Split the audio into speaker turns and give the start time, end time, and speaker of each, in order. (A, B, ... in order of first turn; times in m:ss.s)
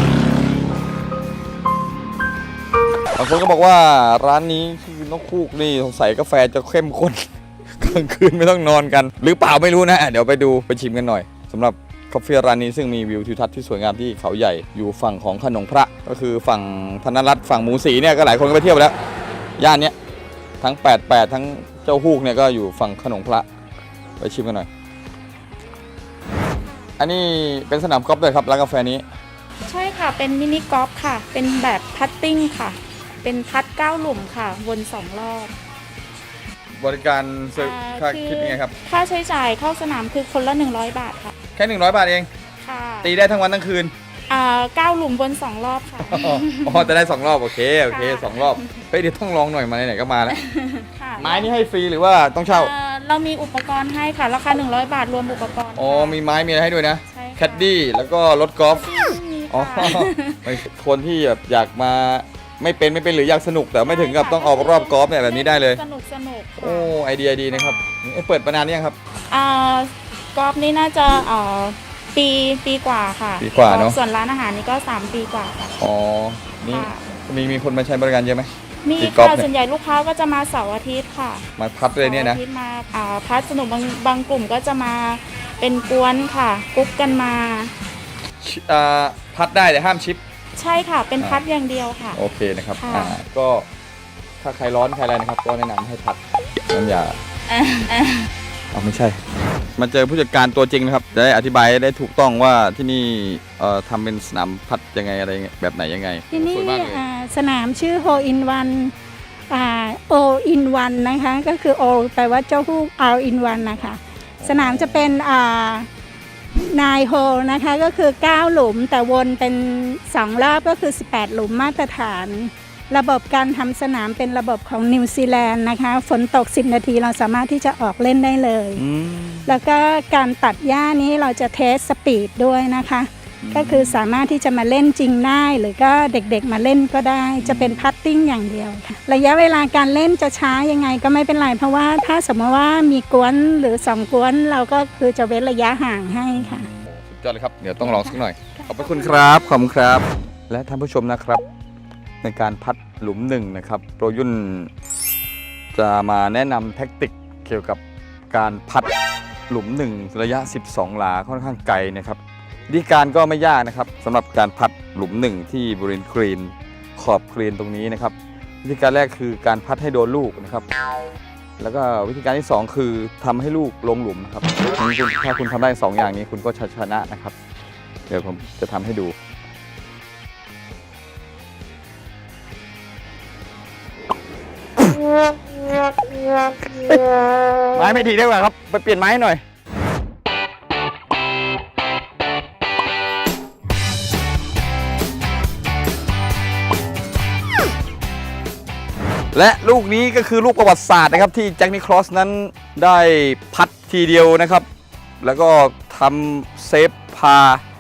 0:03.1-0:18.9 A
0:19.6-0:19.9 A
0:20.6-0:23.4 A
0:24.2-0:24.7 A
0:27.0-0:29.0 A
0:29.6-0:35.5 B
0:36.8-0:38.7 A
0:37.6-0:41.3 B
0:41.5-0:42.3 A
0:42.6-0:43.1 B
0:43.0-0:43.9 A
0:44.3-0:46.9 B
0:46.1-0:50.4 A
0:47.9-0:48.7 B
0:50.3-0:51.5 B
0:51.2-0:52.7 A
0:52.5-0:56.2 B
0:55.8-1:05.8 A
0:57.1-0:57.7 B
0:58.7-1:00.4 B
1:03.8-1:07.0 B
1:06.6-1:09.0 A
1:07.5-1:07.9 B
1:09.3-1:15.7 B
1:13.4-1:14.0 A
1:15.8-1:19.5 A
1:16.7-1:17.1 B
1:18.8-1:21.4 B
1:21.6-1:22.4 A
1:22.0-1:27.7 B
1:28.4-1:30.2 A
1:30.6-1:32.2 B
1:32.1-1:33.7 A
1:32.8-1:33.2 B
1:34.4-1:37.2 A
1:37.5-1:38.3 B
1:38.7-1:39.2 A
1:39.8-1:47.0 A
1:46.3-1:48.9 C
1:49.5-1:55.9 C
1:54.4-1:55.2 A
1:56.6-2:08.8 C
2:08.8-2:09.6 A
2:09.4-2:26.7 C
2:13.4-2:14.0 A
2:17.4-2:17.9 A
2:26.4-2:31.4 A
2:27.8-2:29.0 C
2:32.2-2:34.7 A
2:35.7-2:38.9 A
2:39.5-2:50.6 A
2:51.6-2:57.3 A
2:58.1-2:59.1 A
3:06.7-3:07.2 A
3:07.7-3:09.4 A
3:19.3-3:24.7 A
3:25.2-3:27.6 A